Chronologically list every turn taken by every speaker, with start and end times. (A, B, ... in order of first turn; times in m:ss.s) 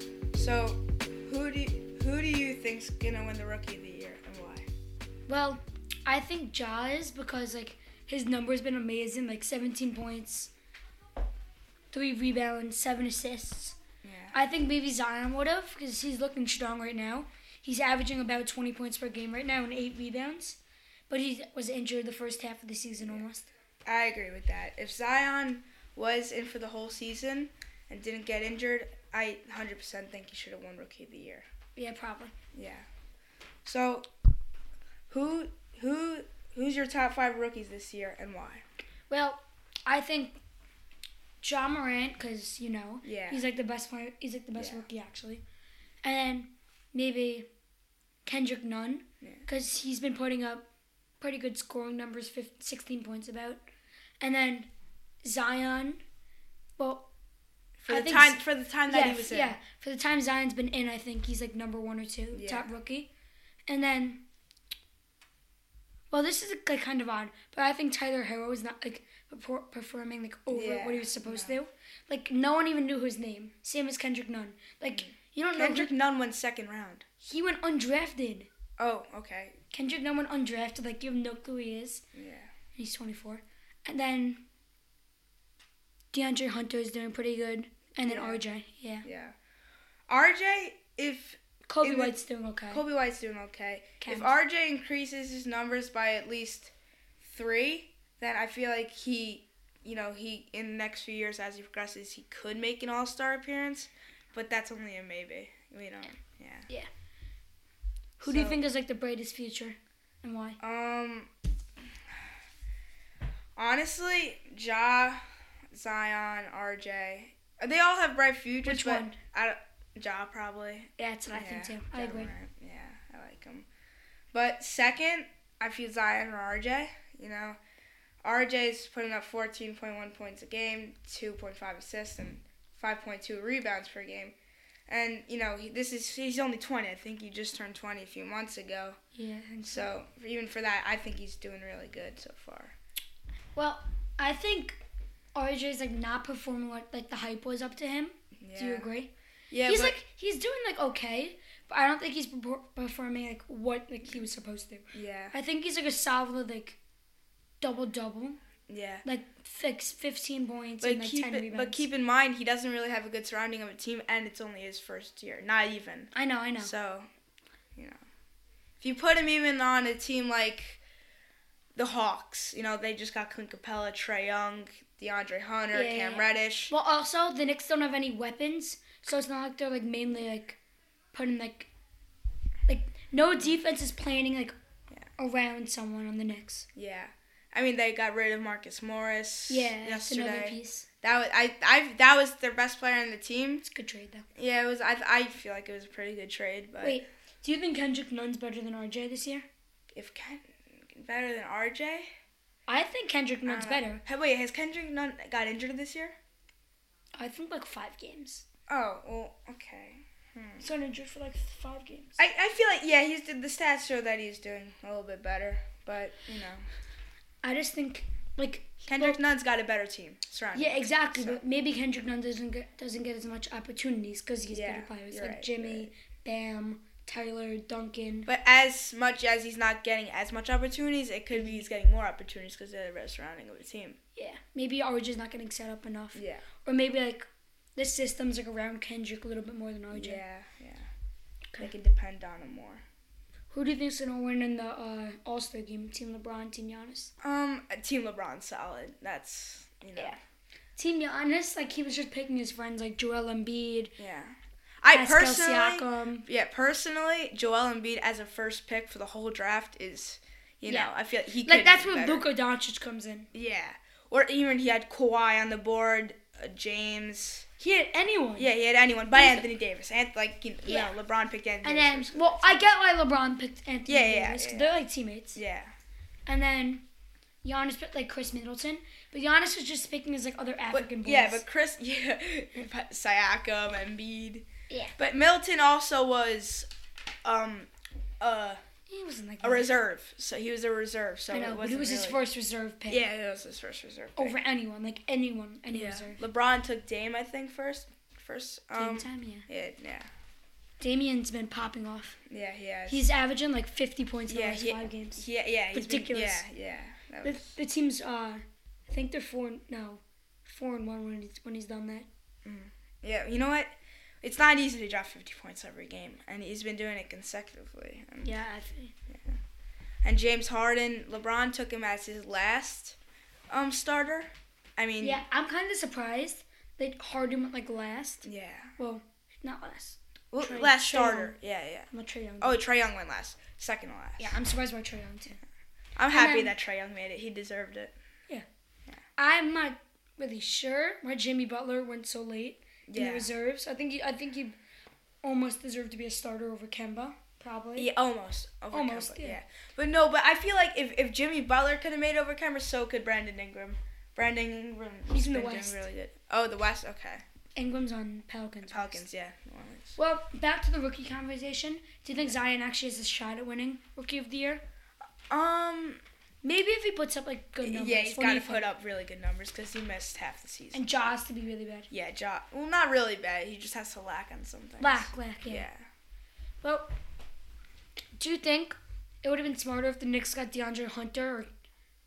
0:00.3-0:04.7 A
0:05.3-0:10.5 B
0:11.9-0:13.8 B
0:14.0-0:14.4 A
0:14.3-0:23.5 B
0:23.9-0:31.4 A
0:31.8-0:32.3 B
0:32.5-0:32.8 A
0:33.6-0:34.0 A
0:35.1-0:38.6 A
0:39.1-0:40.4 B
0:41.4-0:45.4 B
0:43.0-0:43.4 A
0:44.6-0:44.9 A
0:46.0-0:47.5 B
0:48.3-0:50.7 B
0:51.2-0:53.6 B
0:54.2-0:54.7 B
0:55.2-0:56.0 B
0:56.8-0:57.1 B
0:57.8-0:59.6 A
0:57.9-1:03.1 B
1:02.3-1:02.7 A
1:03.7-1:04.2 B
1:06.1-1:15.9 B
1:10.5-1:11.6 A
1:14.9-1:17.0 A
1:17.2-1:18.5 B
1:18.8-1:19.5 A
1:19.7-1:22.0 B
1:22.1-1:22.5 A
1:22.8-1:24.4 B
1:26.1-1:29.1 B
1:28.0-1:28.4 A
1:29.0-1:29.4 A
1:30.1-1:32.2 A
1:31.7-1:32.8 B
1:32.7-1:46.7 A
1:34.0-1:34.4 B
1:48.2-1:50.6 B
1:48.2-1:48.6 A
1:50.6-1:51.3 A
1:53.6-1:55.2 A
1:55.7-2:03.7 A
1:58.6-1:59.2 B
2:01.0-2:02.3 B
2:04.3-2:07.6 A
2:08.2-2:14.4 A
2:14.9-2:19.0 A
2:19.2-2:19.9 B
2:19.6-2:22.8 A
2:23.6-2:24.8 B
2:25.4-2:29.1 B
2:28.4-2:28.9 A
2:29.5-2:30.0 A
2:29.6-2:36.8 B
2:34.9-2:35.4 A
2:37.6-2:38.4 B
2:38.7-2:39.0 A
2:39.0-2:41.9 B
2:40.8-2:47.1 A
2:46.1-2:46.7 B
2:48.8-2:50.8 A
2:51.8-2:56.7 A
2:55.7-3:00.6 B
3:01.1-3:01.7 B
3:02.7-3:04.5 B
3:05.2-3:06.7 B
3:06.8-3:13.6 A
3:09.5-3:10.9 B
3:13.6-3:14.2 B
3:14.4-3:17.0 A
3:16.8-3:19.5 B
3:19.9-3:22.1 A
3:22.7-3:24.0 B
3:23.5-3:26.2 A
3:27.2-3:28.4 B
3:28.7-3:30.7 A
3:30.6-3:32.2 B
3:32.2-3:36.6 A
3:37.4-3:39.2 B
3:38.9-3:41.4 A
3:40.5-3:48.3 B
3:44.5-3:45.9 A
3:48.3-3:54.0 A
3:51.3-3:51.6 B
3:54.2-4:00.2 B
3:56.1-3:56.4 A
3:59.9-4:00.9 A
4:01.6-4:02.8 A
4:03.5-4:07.1 B
4:07.2-4:10.2 A
4:10.8-4:13.9 B
4:14.0-4:22.3 A
4:14.9-4:16.3 B
4:20.7-4:20.9 B
4:21.4-4:23.3 B
4:23.3-4:27.5 A
4:27.6-4:28.5 B
4:28.4-4:32.7 A
4:29.1-4:29.5 B
4:30.6-4:30.9 B
4:31.6-4:35.4 B
4:33.9-4:34.8 A
4:35.4-4:35.7 A
4:36.3-4:36.8 B
4:37.4-4:41.4 B
4:40.7-4:44.5 A
4:44.7-4:45.0 B
4:45.0-4:46.7 A
4:47.2-4:47.7 A
4:48.2-4:48.6 A
4:48.9-4:49.7 B
4:49.4-4:52.2 A
4:51.3-4:53.0 B
4:52.9-4:54.4 A
4:54.2-4:56.2 B
4:55.7-5:00.1 A
4:58.8-4:59.5 B
5:00.8-5:02.2 B
5:02.3-5:03.0 A
5:02.9-5:06.4 B
5:04.3-5:07.5 A
5:07.2-5:12.1 B
5:12.4-5:18.4 A
5:18.2-5:18.9 B
5:19.1-5:19.4 A
5:20.0-5:23.0 A
5:23.5-5:25.2 A
5:25.0-5:28.3 B
5:28.2-5:28.8 A
5:28.8-5:31.3 B
5:30.3-5:31.9 A
5:31.9-5:32.6 B
5:32.4-5:34.4 A
5:34.2-5:35.4 B
5:36.0-5:38.0 A
5:36.1-5:36.5 B
5:39.2-5:44.6 B
5:42.9-5:43.3 A
5:45.2-5:47.9 B
5:47.8-5:57.2 A
5:48.7-5:49.4 B
5:55.1-5:55.8 B
5:57.6-5:59.0 B
5:58.7-6:00.0 A
6:00.0-6:04.6 B
6:05.3-6:06.0 A
6:06.4-6:08.6 B
6:07.6-6:10.9 A
6:10.7-6:11.9 B
6:11.9-6:15.8 A
6:14.8-6:15.7 B
6:16.6-6:16.9 B
6:18.2-6:21.5 B